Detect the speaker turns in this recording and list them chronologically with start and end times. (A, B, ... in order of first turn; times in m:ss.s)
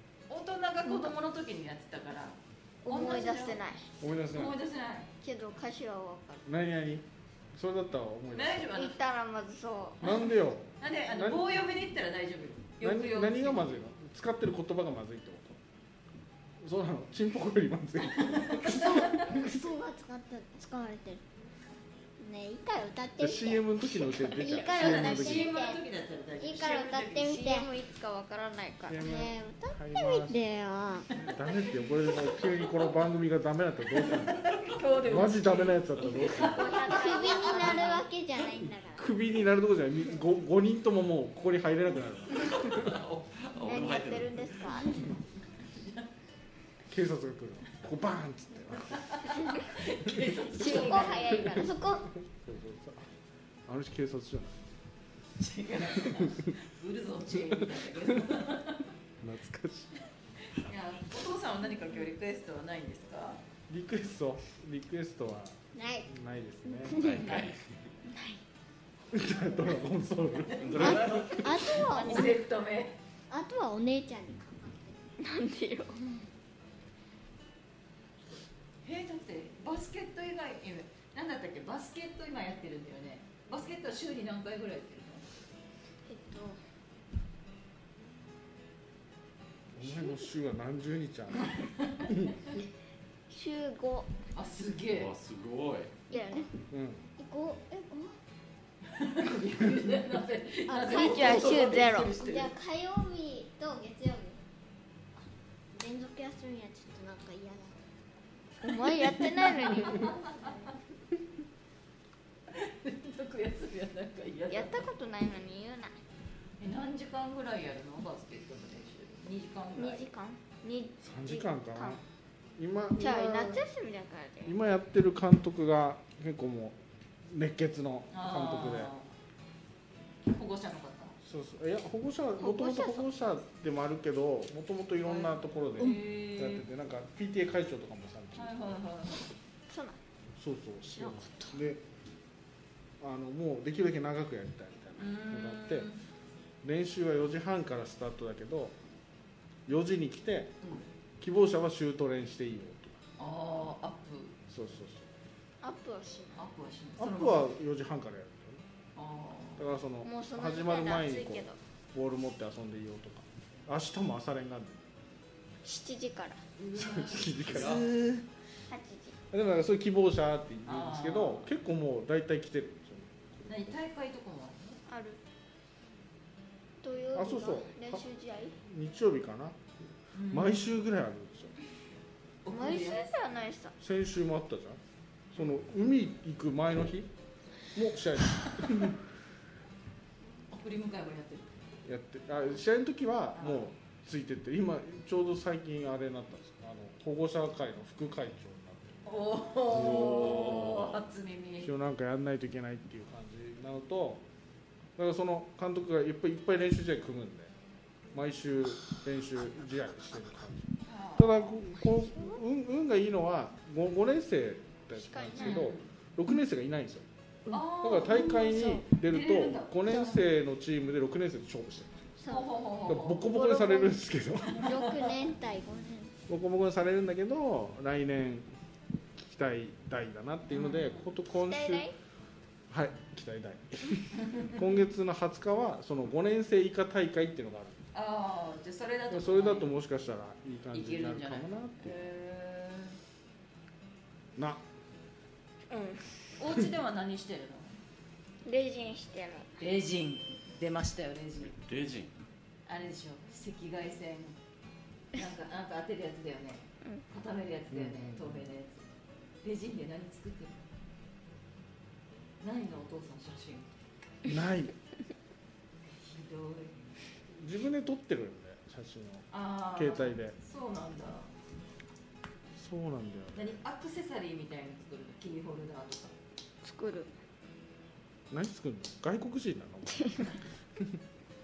0:00.3-0:03.6 A
0:02.8-0:03.9 B
0:04.0-0:04.6 C
0:04.3-0:05.1 A
0:05.2-0:06.4 B
0:06.4-0:08.7 C
0:08.3-0:09.0 A
0:08.7-0:10.1 B
0:10.0-0:11.5 C
0:10.8-0:13.8 A
0:12.8-0:15.6 C
0:16.6-0:19.5 C
0:18.2-0:19.2 A
0:18.6-0:21.2 D
0:22.2-0:25.8 D
0:23.2-0:25.5 C
0:24.6-0:27.5 A
0:26.4-0:27.7 D
0:27.3-0:29.2 B
0:28.9-0:30.5 C
0:29.0-0:31.2 D
0:31.2-0:36.7 C
0:34.1-0:38.0 A
0:36.4-0:38.0 B
0:36.8-0:39.1 D
0:38.9-0:43.0 C
0:42.3-0:45.0 E
0:43.6-0:45.0 B
0:45.7-0:46.0 A
0:46.9-0:49.2 C
0:49.0-0:51.4 A
0:50.5-0:51.8 B
0:51.0-0:52.1 D
0:52.2-0:53.1 C
0:53.6-0:54.7 C
0:55.4-0:58.9 A
0:56.0-0:56.5 C
0:57.6-0:58.3 C
0:59.2-0:59.9 C
1:00.4-1:03.4 A
1:03.7-1:07.0 C
1:05.7-1:06.1 D
1:06.7-1:07.4 D
1:06.9-1:07.8 E
1:08.1-1:08.4 B
1:09.1-1:11.2 C
1:10.6-1:11.8 E
1:10.7-1:13.0 A
1:10.8-1:12.4 D
1:13.3-1:15.1 D
1:15.2-1:16.0 B
1:18.8-1:25.2 A
1:26.0-1:26.6 B
1:29.7-1:32.4 C
1:29.8-1:30.1 B
1:31.6-1:32.1 A
1:33.3-1:34.1 B
1:34.3-1:35.1 A
1:34.9-1:35.9 E
1:36.1-1:36.5 B
1:36.1-1:36.4 D
1:36.7-1:37.0 C
1:37.2-1:38.2 D
1:38.9-1:42.5 A
1:40.7-1:44.4 D
1:40.8-1:42.1 B
1:45.7-1:47.8 D
1:48.6-1:50.2 B
1:49.6-1:50.6 A
1:49.6-1:50.7 D
1:52.5-1:54.8 A
1:54.5-1:56.0 B
1:56.6-2:00.0 A
1:59.8-2:02.0 B
2:01.0-2:02.0 C
2:02.6-2:03.6 C
2:03.0-2:04.5 B
2:04.4-2:08.9 C
2:08.1-2:09.1 A
2:10.2-2:11.2 A
2:11.2-2:18.8 C
2:12.4-2:13.0 B
2:15.0-2:16.7 A
2:18.4-2:19.2 A
2:19.7-2:20.0 B
2:20.4-2:21.8 C
2:21.0-2:21.5 B
2:23.0-2:25.9 C
2:25.0-2:26.0 A
2:26.6-2:28.7 C
2:29.7-2:30.5 C
2:31.2-2:33.0 C
2:33.2-2:34.4 A
2:34.5-2:35.1 C
2:35.6-2:36.4 B
2:36.4-2:37.5 A
2:37.0-2:38.6 C
2:39.0-2:39.6 A
2:39.6-2:44.9 C
2:40.0-2:41.6 B
2:45.6-2:46.4 B
2:46.6-2:48.2 A
2:46.7-2:47.8 C
2:47.5-2:47.8 E
2:48.7-2:49.2 B
2:49.3-2:53.8 C
2:50.6-2:51.5 A
2:53.5-2:54.8 A
2:54.9-2:55.2 B
2:56.8-2:58.6 B
2:57.1-2:58.0 C
2:58.6-2:59.7 C
3:00.1-3:00.6 A
3:00.3-3:01.5 C
3:02.4-3:03.1 A
3:02.5-3:03.7 B
3:03.8-3:04.8 C
3:05.3-3:07.1 C
3:07.7-3:09.0 C
3:10.5-3:11.5 A
3:11.8-3:19.0 C
3:13.4-3:13.7 A
3:19.0-3:21.7 A
3:19.7-3:21.0 E
3:21.6-3:24.2 C
3:25.0-3:27.5 C
3:28.1-3:37.1 C
3:30.8-3:31.6 A
3:35.0-3:35.7 B
3:35.4-3:35.9 A
3:37.5-3:40.2 A
3:37.7-3:42.1 C
3:38.4-3:38.7 D
3:42.2-3:42.5 D
3:42.3-3:43.2 A
3:42.8-3:44.7 C
3:44.5-3:45.1 A
3:44.6-3:46.2 D
3:46.3-3:48.5 C
3:49.2-3:51.9 C
3:50.5-3:51.0 A
3:51.4-3:51.9 B
3:52.7-3:57.8 C
3:54.2-3:54.5 A
3:57.9-3:59.7 A
3:59.1-4:02.0 C
4:00.7-4:03.0 A
4:04.4-4:04.6 C
4:05.7-4:06.3 B
4:06.4-4:07.8 A
4:08.4-4:09.5 B
4:09.6-4:11.6 A
4:11.5-4:12.1 E
4:12.7-4:14.4 A
4:15.1-4:18.9 A
4:17.7-4:18.4 C
4:19.4-4:20.6 A
4:22.4-4:23.8 A
4:24.2-4:24.7 C
4:25.9-4:26.9 A
4:27.3-4:30.4 C
4:29.3-4:31.3 A
4:32.6-4:33.6 C
4:33.3-4:36.1 A
4:36.6-4:37.1 B
4:38.3-4:40.2 C